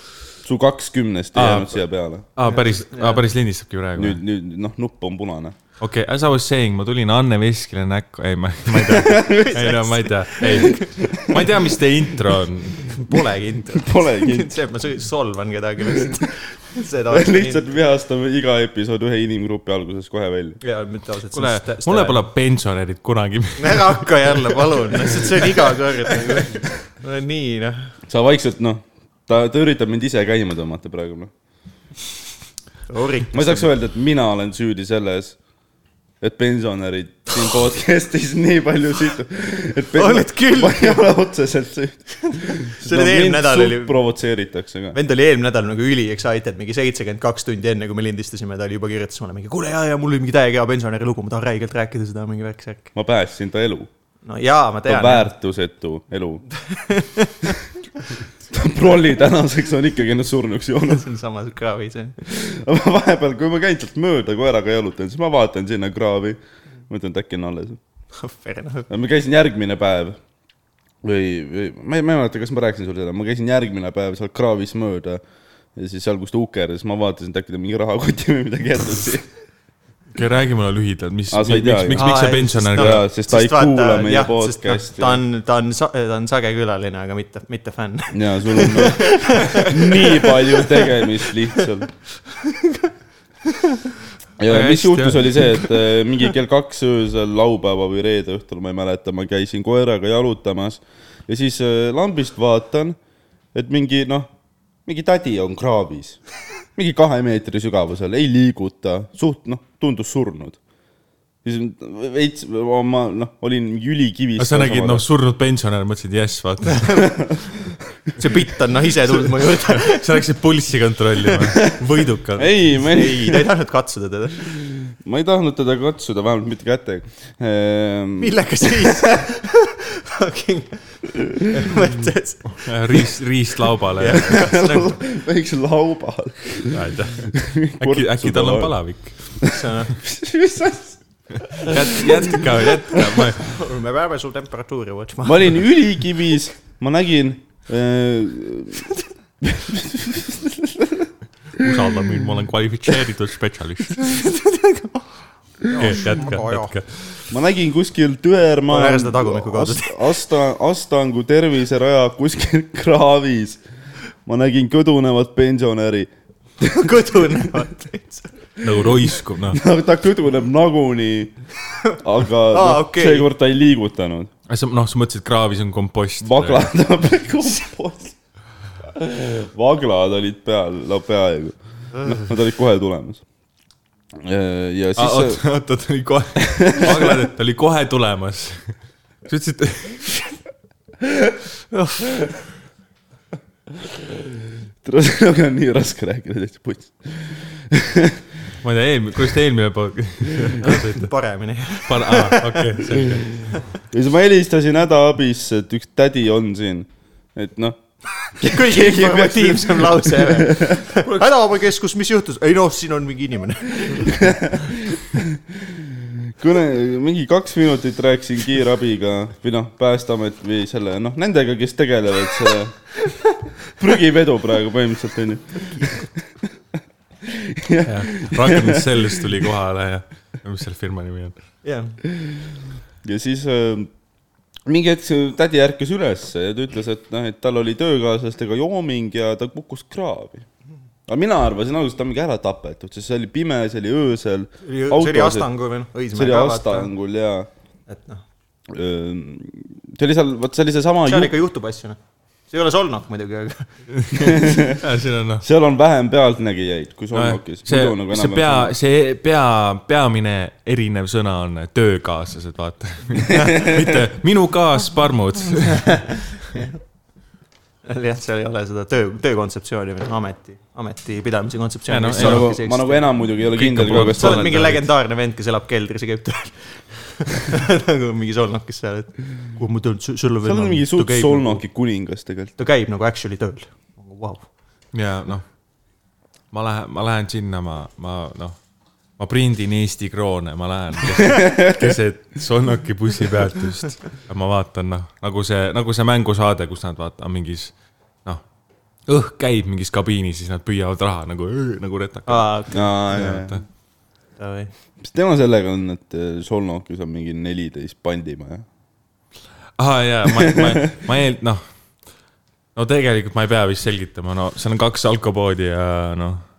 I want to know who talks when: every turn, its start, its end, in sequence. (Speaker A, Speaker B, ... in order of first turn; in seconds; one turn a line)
Speaker A: 0.4-2.3
Speaker B: 1.4-1.8
Speaker B: 2.4-4.2
Speaker C: 2.4-3.2
Speaker A: 4.0-5.6
Speaker B: 5.8-13.0
Speaker A: 8.8-9.6
Speaker C: 9.3-11.1
Speaker A: 10.7-11.4
Speaker C: 12.9-17.7
Speaker A: 13.7-14.6
Speaker A: 17.1-20.6
Speaker C: 20.6-22.3
Speaker B: 21.3-24.4
Speaker C: 23.6-27.9
Speaker A: 28.1-31.3
Speaker C: 32.9-33.7
Speaker A: 33.3-35.4
Speaker A: 36.2-45.0
Speaker C: 39.9-41.0
Speaker C: 42.3-44.0
Speaker C: 44.9-52.9
Speaker A: 52.9-53.9
Speaker C: 54.2-55.3
Speaker A: 54.9-56.5
Speaker C: 56.5-57.6
Speaker A: 58.4-61.1
Speaker C: 60.8-62.2
Speaker A: 62.2-67.8
Speaker C: 68.1-68.9
Speaker A: 68.9-70.2
Speaker A: 71.0-75.2
Speaker A: 75.8-79.3
Speaker B: 80.2-83.0
Speaker A: 81.3-85.2
Speaker C: 81.9-91.0
Speaker A: 88.1-91.9
Speaker A: 94.4-103.0
Speaker B: 94.4-95.6
Speaker A: 103.5-104.3
Speaker A: 104.8-106.2
Speaker A: 106.8-110.6
Speaker A: 111.4-115.1
Speaker B: 114.4-117.3
Speaker C: 118.2-120.2
Speaker B: 119.4-122.5
Speaker A: 122.4-123.5
Speaker C: 122.7-124.4
Speaker A: 124.5-129.0
Speaker C: 128.2-133.2
Speaker B: 132.6-134.6
Speaker C: 134.0-135.0
Speaker A: 134.1-141.0
Speaker B: 136.7-139.4
Speaker C: 139.5-140.0
Speaker B: 141.5-143.6
Speaker A: 141.6-142.4
Speaker A: 142.9-143.2
Speaker C: 143.4-145.6
Speaker A: 145.2-148.9
Speaker A: 149.4-151.7
Speaker B: 151.6-154.1
Speaker C: 154.0-156.8
Speaker B: 155.7-157.2
Speaker A: 157.3-163.6
Speaker C: 158.7-160.1
Speaker A: 164.3-167.3
Speaker C: 166.6-168.3
Speaker B: 168.6-169.6
Speaker A: 169.5-171.3
Speaker A: 171.9-174.3
Speaker C: 172.5-173.3
Speaker B: 174.5-176.7
Speaker A: 176.2-178.2
Speaker A: 178.8-183.2
Speaker A: 184.2-185.4
Speaker B: 185.0-190.2
Speaker A: 186.4-187.2
Speaker B: 191.7-192.0
Speaker A: 193.9-198.3
Speaker B: 198.6-201.1
Speaker C: 200.6-203.0
Speaker B: 201.9-203.6
Speaker A: 203.8-207.8
Speaker C: 208.2-214.5
Speaker A: 208.3-210.8
Speaker A: 214.1-226.2
Speaker A: 227.3-228.8
Speaker B: 227.8-231.3
Speaker C: 231.6-232.0
Speaker A: 233.0-233.9
Speaker A: 234.7-240.4
Speaker A: 241.1-245.5
Speaker C: 244.6-246.9
Speaker A: 246.1-247.5
Speaker C: 247.9-248.2
Speaker A: 248.7-251.3
Speaker C: 251.1-253.7
Speaker B: 254.0-255.4
Speaker A: 254.1-254.8
Speaker A: 255.4-258.7
Speaker B: 257.1-266.1
Speaker A: 263.3-263.8
Speaker C: 265.6-266.8
Speaker C: 267.8-273.1
Speaker B: 271.9-272.5
Speaker A: 272.2-274.5
Speaker B: 273.5-274.9
Speaker C: 273.9-281.6
Speaker A: 280.4-282.5
Speaker C: 282.6-284.5
Speaker B: 284.9-285.4
Speaker B: 286.5-288.6
Speaker B: 289.2-298.4
Speaker A: 291.3-291.7
Speaker B: 299.1-303.6
Speaker C: 302.3-303.0
Speaker A: 302.7-303.6
Speaker C: 304.4-304.7
Speaker A: 305.0-308.6
Speaker B: 309.8-311.6
Speaker A: 310.3-310.8
Speaker B: 312.8-316.4